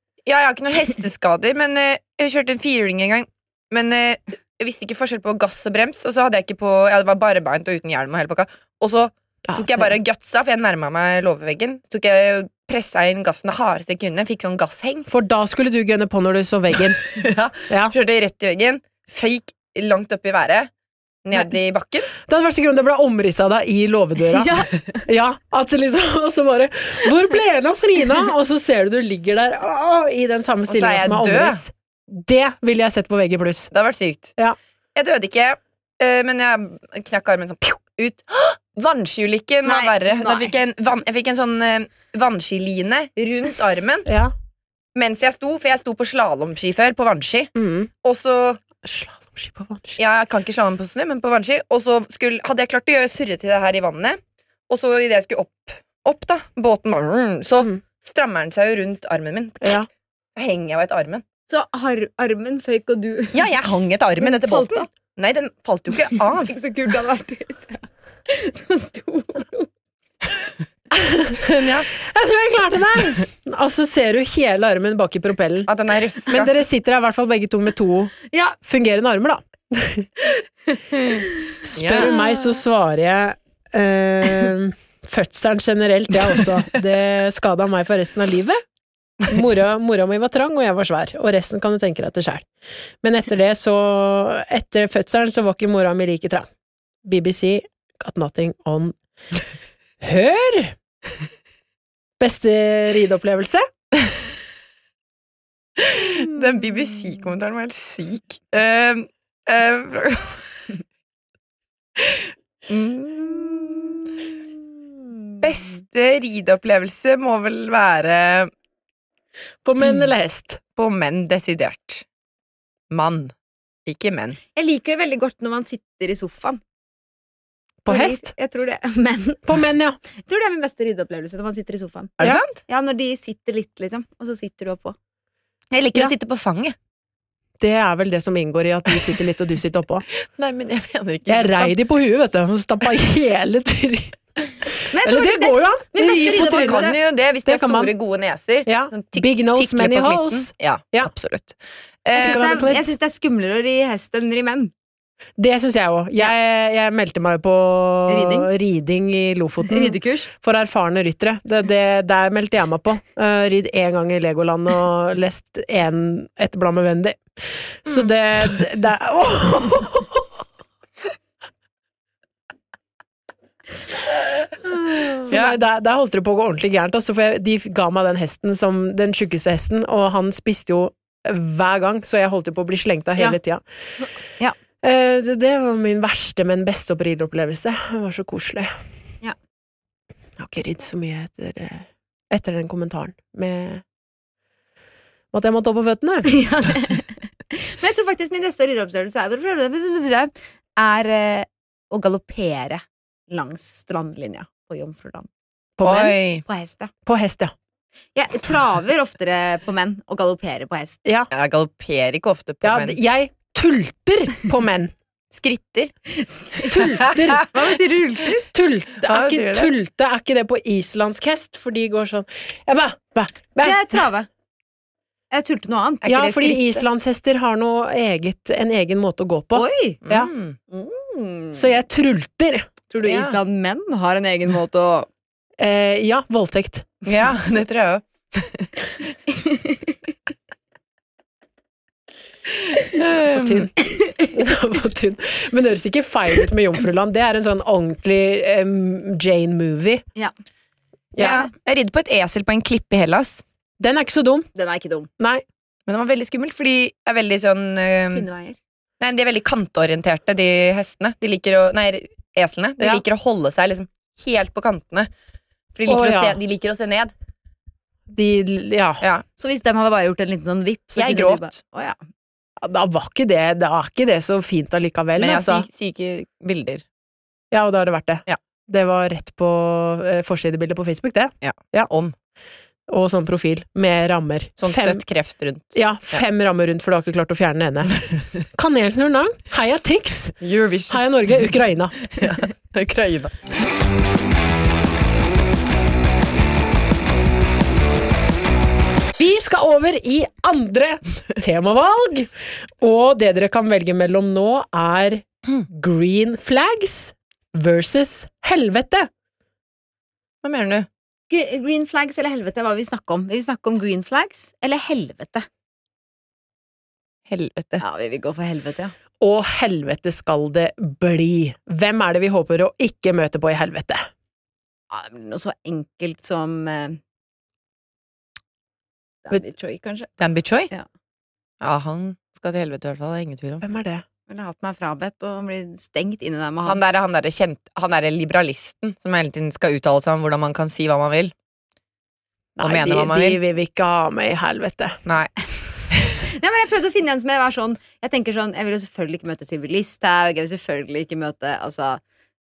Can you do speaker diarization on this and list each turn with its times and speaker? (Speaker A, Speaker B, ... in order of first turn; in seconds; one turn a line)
Speaker A: 0.2-15.1
Speaker B: 9.5-9.9
Speaker B: 15.1-17.0
Speaker A: 17.1-20.7
Speaker B: 17.7-17.9
Speaker A: 21.2-22.1
Speaker B: 22.3-33.7
Speaker C: 24.3-24.7
Speaker A: 30.7-31.6
Speaker A: 33.7-34.3
Speaker A: 34.9-44.1
Speaker C: 39.6-40.5
Speaker B: 44.0-44.3
Speaker A: 44.9-48.6
Speaker B: 47.5-47.9
Speaker B: 48.8-50.0
Speaker A: 50.0-59.8
Speaker B: 59.6-59.9
Speaker A: 60.4-61.2
Speaker C: 61.5-63.5
Speaker A: 63.3-66.5
Speaker C: 64.2-64.9
Speaker C: 66.4-69.7
Speaker B: 71.0-71.3
Speaker A: 71.4-71.9
Speaker B: 71.9-75.7
Speaker A: 75.7-76.5
Speaker B: 76.3-80.1
Speaker C: 78.3-78.6
Speaker B: 81.6-88.6
Speaker A: 81.8-82.1
Speaker B: 89.3-92.5
Speaker B: 93.0-96.5
Speaker B: 97.0-98.9
Speaker B: 100.0-100.8
Speaker B: 102.2-103.6
Speaker A: 105.8-110.4
Speaker A: 112.7-114.0
Speaker A: 115.4-118.5
Speaker B: 119.6-120.6
Speaker A: 120.8-122.0
Speaker A: 122.9-123.3
Speaker A: 123.8-124.4
Speaker C: 124.5-126.6
Speaker B: 127.8-128.3
Speaker C: 127.9-129.5
Speaker B: 129.4-130.0
Speaker C: 130.2-134.9
Speaker A: 132.2-132.5
Speaker A: 135.7-136.7
Speaker B: 137.6-140.1
Speaker A: 140.2-141.7
Speaker B: 141.3-144.2
Speaker B: 144.7-146.9
Speaker C: 144.9-147.0
Speaker A: 146.2-152.6
Speaker B: 147.4-147.9
Speaker B: 148.7-151.1
Speaker C: 152.1-154.7
Speaker B: 152.1-152.9
Speaker B: 155.4-167.2
Speaker C: 158.1-158.5
Speaker C: 159.7-160.3
Speaker B: 167.8-170.2
Speaker B: 175.2-183.6
Speaker A: 175.3-175.6
Speaker B: 184.8-188.7
Speaker B: 190.4-193.8
Speaker B: 195.3-196.3
Speaker C: 196.3-205.3
Speaker B: 205.8-206.2
Speaker A: 205.8-206.4
Speaker C: 206.4-206.9
Speaker B: 207.1-207.5
Speaker C: 208.1-211.1
Speaker A: 211.3-213.0
Speaker B: 212.6-214.9
Speaker A: 215.3-215.9
Speaker C: 216.1-218.5
Speaker B: 216.7-217.5
Speaker B: 218.5-223.8
Speaker A: 219.1-219.7
Speaker C: 223.6-224.3
Speaker C: 225.3-226.1
Speaker A: 226.0-226.6
Speaker B: 226.1-230.3
Speaker C: 229.5-230.0
Speaker A: 230.1-230.6
Speaker C: 230.7-231.7
Speaker B: 231.5-232.7
Speaker C: 232.9-235.1
Speaker A: 233.0-233.4
Speaker B: 235.6-236.8
Speaker A: 237.0-238.7
Speaker A: 242.9-243.7
Speaker B: 243.3-250.0
Speaker B: 251.1-251.4
Speaker A: 251.2-253.4
Speaker C: 251.2-251.5
Speaker B: 253.8-254.5
Speaker C: 254.5-255.1
Speaker B: 255.2-255.4
Speaker A: 255.9-258.3
Speaker C: 258.1-258.6
Speaker A: 259.0-265.1
Speaker A: 265.7-267.1
Speaker B: 265.9-266.4
Speaker B: 268.1-269.0
Speaker C: 269.4-272.0
Speaker A: 270.9-271.5
Speaker B: 272.6-275.6
Speaker A: 275.2-276.8
Speaker B: 277.5-281.9
Speaker A: 281.4-282.1
Speaker B: 282.9-285.0
Speaker A: 284.6-286.2
Speaker B: 285.7-288.0
Speaker B: 288.5-290.3
Speaker A: 290.4-291.0
Speaker B: 290.9-292.0
Speaker A: 292.1-293.3
Speaker B: 299.2-302.3
Speaker B: 302.8-309.1
Speaker A: 310.4-310.9
Speaker C: 311.3-315.4
Speaker A: 317.3-317.8
Speaker C: 317.8-318.9
Speaker B: 319.2-324.1
Speaker C: 324.9-327.0
Speaker C: 329.3-330.2
Speaker A: 330.2-330.7
Speaker A: 331.6-333.6
Speaker B: 333.6-334.0
Speaker C: 334.3-336.8
Speaker A: 336.6-341.3
Speaker B: 342.6-345.0
Speaker A: 342.6-343.4
Speaker A: 345.1-345.3
Speaker C: 346.3-352.0